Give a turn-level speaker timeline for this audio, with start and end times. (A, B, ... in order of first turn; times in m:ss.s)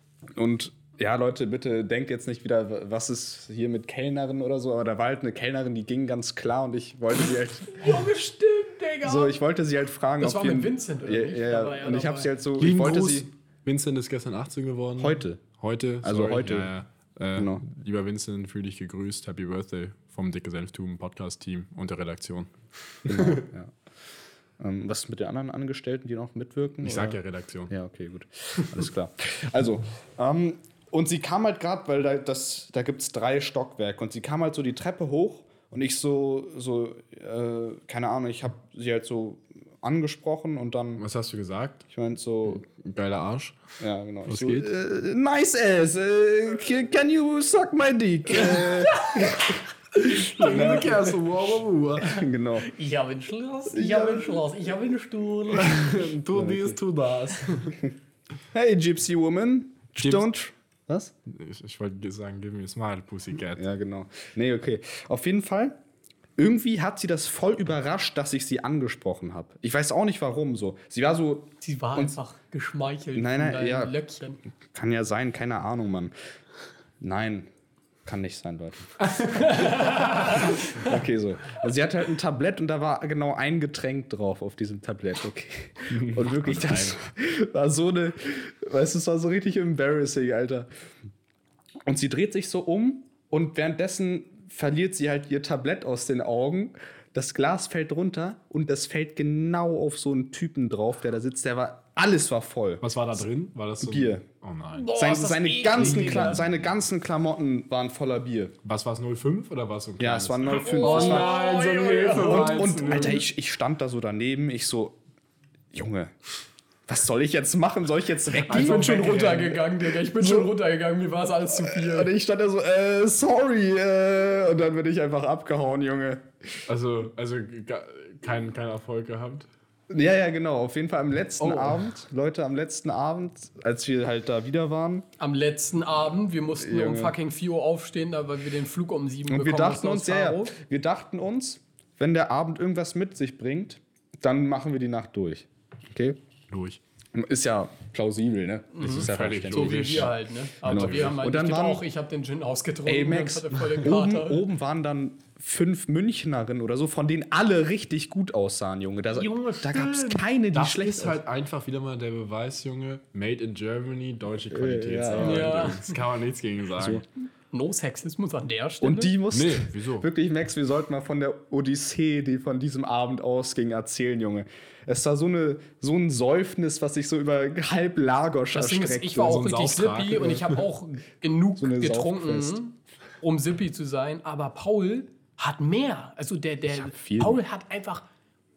0:00.3-0:08.0 A
0:07.7-0:09.4 B
0:09.0-0:13.3 A
0:10.2-0:12.3 B
0:12.6-0:23.5 C
0:15.0-0:15.4 A
0:16.0-0:16.7 A
0:17.4-0:17.6 A
0:23.1-0:23.7 A
0:24.6-0:27.2 A
0:26.8-0:27.7 C
0:27.7-0:41.0 A
0:41.0-0:41.8 C
0:41.9-0:42.6 A
0:42.5-0:43.6 C
0:43.8-0:51.2 A
0:44.3-0:44.7 C
0:48.5-0:49.4 B
0:50.0-0:50.9 B
0:50.3-0:52.2 C
0:52.0-0:52.7 A
0:52.2-0:55.9 B
0:53.7-0:54.4 A
0:55.5-0:57.8 C
0:56.3-0:56.8 A
0:58.5-1:01.1 A
1:00.0-1:00.3 C
1:01.2-1:03.6 C
1:03.5-1:05.8 A
1:06.4-1:12.1 A
1:11.6-1:14.4 B
1:13.1-1:13.9 A
1:14.7-1:16.1 A
1:17.0-1:17.5 A
1:18.0-1:30.7 A
1:19.0-1:20.4 C
1:19.3-1:20.9 B
1:25.9-1:27.0 C
1:31.8-1:42.8 A
1:42.8-1:44.9 C
1:43.8-1:44.2 A
1:44.7-1:46.4 B
1:44.9-1:48.5 A
1:45.7-1:46.5 C
1:48.6-1:53.2 C
1:50.0-1:51.4 A
1:50.4-1:53.2 B
1:52.1-1:55.0 A
1:55.7-1:56.1 A
1:56.9-2:00.5 A
1:58.4-2:02.1 B
1:58.4-1:59.6 C
2:01.5-2:06.3 A
2:06.7-2:09.5 C
2:09.9-2:15.1 A
2:11.4-2:11.8 B
2:15.2-2:20.5 B
2:16.6-2:17.1 A
2:19.3-2:26.2 A
2:26.5-2:26.8 C
2:27.1-2:30.1 A
2:28.7-2:34.4 B
2:28.8-2:30.1 C
2:30.6-2:31.8 A
2:30.6-2:31.2 C
2:32.8-2:41.2 A
2:39.2-2:40.2 B
2:40.5-2:47.0 C
2:44.5-2:45.8 A
2:45.2-2:46.0 B
2:46.8-2:47.0 A
2:47.5-2:49.1 B
2:48.8-2:59.4 A
2:49.3-2:50.0 C
2:58.5-3:08.0 B
2:59.2-3:00.6 C
3:01.6-3:02.6 A
3:06.8-3:07.4 A